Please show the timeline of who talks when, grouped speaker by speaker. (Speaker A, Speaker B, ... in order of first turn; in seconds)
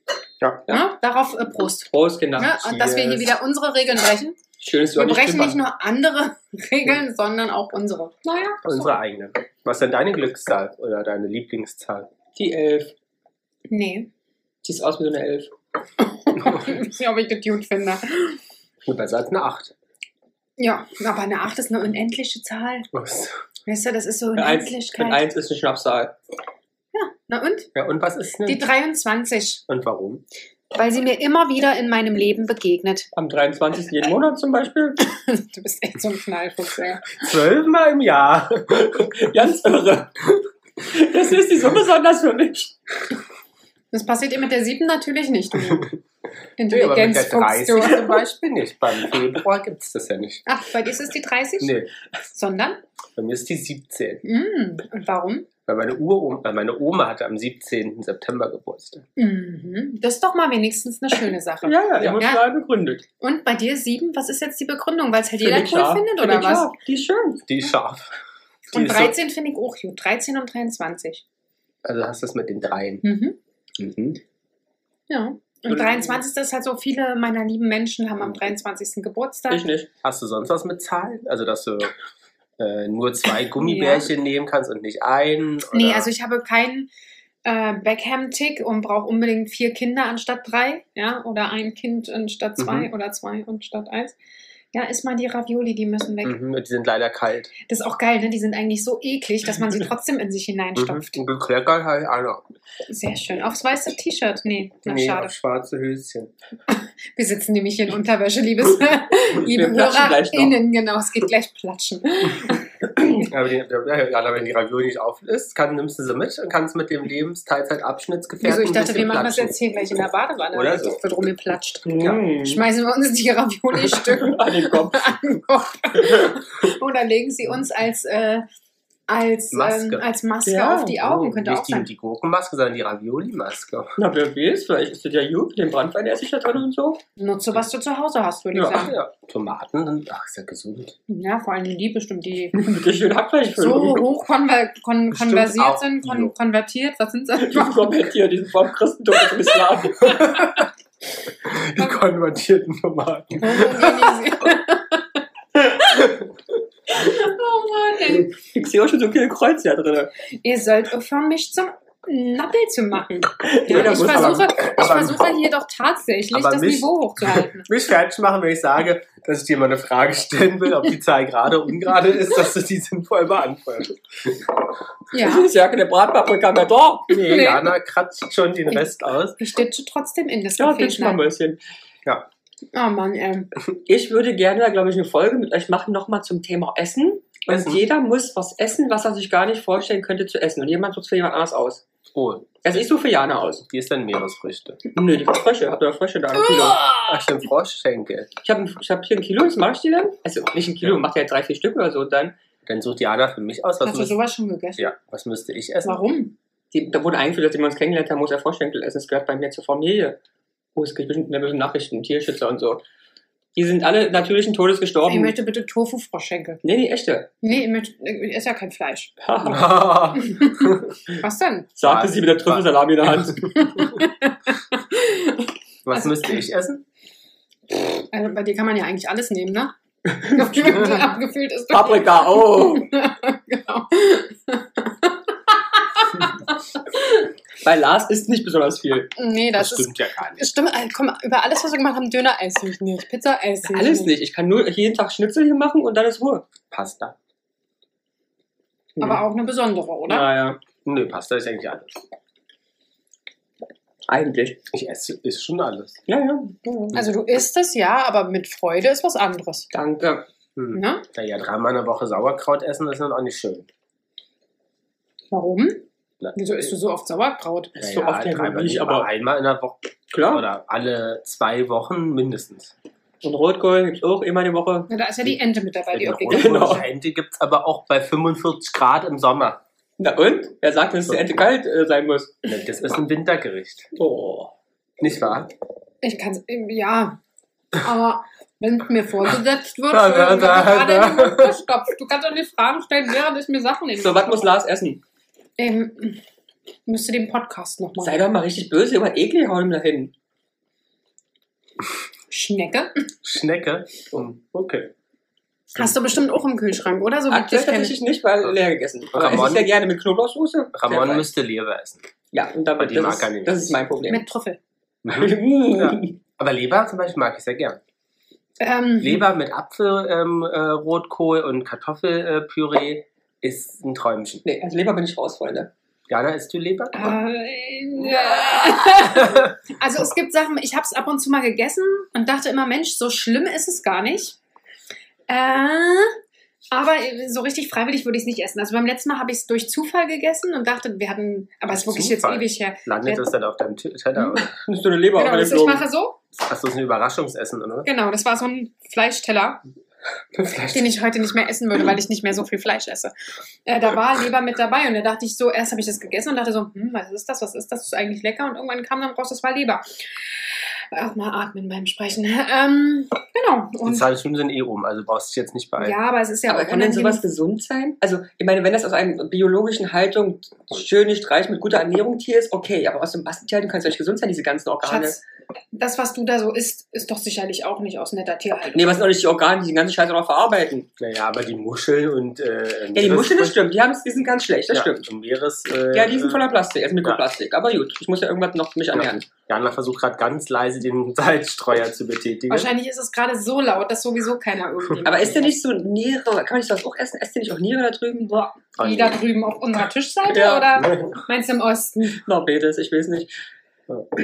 Speaker A: 0.7-4.4, 5.0-8.9, 13.7-14.1, 16.0-18.4, 20.6-22.9, 23.7-25.2, 26.9-27.7, 28.5-29.6, 30.7-33.1, 35.0-37.3, 43.9-45.9, 46.6-48.3, 50.5-51.8, 52.3-52.8, 54.2-55.5, 59.2-62.5, 63.2-66.7, 68.7-71.2, 73.0-73.4, 75.1-79.7, 83.6-84.1, 85.7-86.9, 87.5-94.2, 94.7-96.4, 97.7-101.2, 102.9-105.3, 106.7-112.7, 118.4-128.5, 129.1-131.9, 137.2-138.9, 141.1-142.6, 143.6-148.0, 153.4-155.1, 156.9-158.3, 160.4-167.7, 175.1-175.5, 177.2-177.7, 179.4-181.2, 182.7-183.5, 196.5-197.2, 203.8-204.9, 205.8-206.4, 215.1-216.6, 217.4-219.1, 220.2-221.7, 223.6-226.4, 227.7-236.4, 239.2-244.1, 249.0-250.3, 256.9-259.7, 260.7-261.0, 265.3-267.8, 274.9-276.8, 286.0-287.2, 287.8-294.4, 295.6-296.2, 296.9-298.2, 302.3-302.9, 305.7-308.0, 314.1-314.6, 318.6-319.3, 326.9-334.4, 335.3-336.2, 336.7-343.3, 345.2-346.2, 347.9-349.6, 350.7-353.1, 353.7-359.9, 360.9-364.1, 365.8-367.2, 374.8-375.2, 375.7-379.0, 392.5-395.6, 398.2-402.2
Speaker B: 1.9-2.6, 4.6-5.6, 12.3-12.9, 14.6-15.5, 24.4-26.1, 33.1-35.0, 38.8-42.8, 61.6-63.0, 65.4-67.4, 75.7-76.2, 79.5-79.9, 109.5-110.6, 121.9-122.7, 123.9-125.2, 130.4-131.0, 134.0-137.0, 138.5-138.9, 142.5-144.1, 147.4-150.2, 158.4-160.1, 163.4-164.5, 175.1-177.1, 180.6-181.6, 183.9-191.8, 192.6-193.7, 194.9-196.8, 198.4-202.4, 206.7-210.2, 210.8-212.8, 213.6-215.4, 216.6-217.3, 219.2-219.8, 221.8-223.5, 231.7-232.9, 237.6-239.1, 243.7-246.5, 249.0-249.2, 250.1-250.6, 254.1-254.6, 256.1-256.9, 259.7-260.3, 267.8-269.1, 270.1-270.4, 273.2-274.9, 276.3-276.9, 280.0-282.4, 283.9-284.5, 294.0-295.0, 298.0-300.1, 307.3-311.3, 312.3-314.2, 315.1-316.2, 324.4-325.7, 344.4-345.9, 366.5-375.2, 378.7-380.9, 382.9-385.1, 385.9-389.3, 395.0-398.3, 400.3-400.9, 402.2-403.3
Speaker C: 2.5-3.3, 8.6-12.1, 18.9-19.7, 22.9-23.4, 27.8-28.6, 29.7-30.2, 37.2-39.1, 46.7-50.4, 51.6-51.9, 53.2-54.2, 55.7-59.0, 67.5-68.1, 68.7-69.2, 71.8-73.1, 73.8-74.2, 80.0-81.9, 82.6-86.1, 92.6-92.9, 96.2-97.5, 100.8-102.4, 104.9-106.3, 113.2-119.5, 120.5-121.0, 129.5-130.1, 131.0-133.9, 138.8-141.0, 145.1-146.3, 150.0-150.7, 151.4-154.2, 163.7-165.2, 166.3-174.3, 177.1-179.4, 187.5-187.8, 192.1-192.9, 193.7-194.8, 197.1-198.3, 202.7-204.2, 204.8-206.0, 219.4-220.8, 221.8-223.8, 225.8-226.8, 239.6-240.5, 246.7-247.2, 250.8-252.0, 254.7-256.0, 260.6-263.7, 267.8-272.7, 275.9-279.6, 282.4-283.9, 285.0-285.5, 289.9-291.6, 303.2-304.9, 309.1-309.7, 310.7-312.0, 312.8-313.8, 315.0-317.8, 319.0-324.4, 326.1-327.1, 341.7-344.5, 346.4-347.9, 350.3-350.9, 363.8-366.0, 381.0-383.6, 384.7-386.5, 388.9-392.7, 398.8-399.2, 400.8-401.1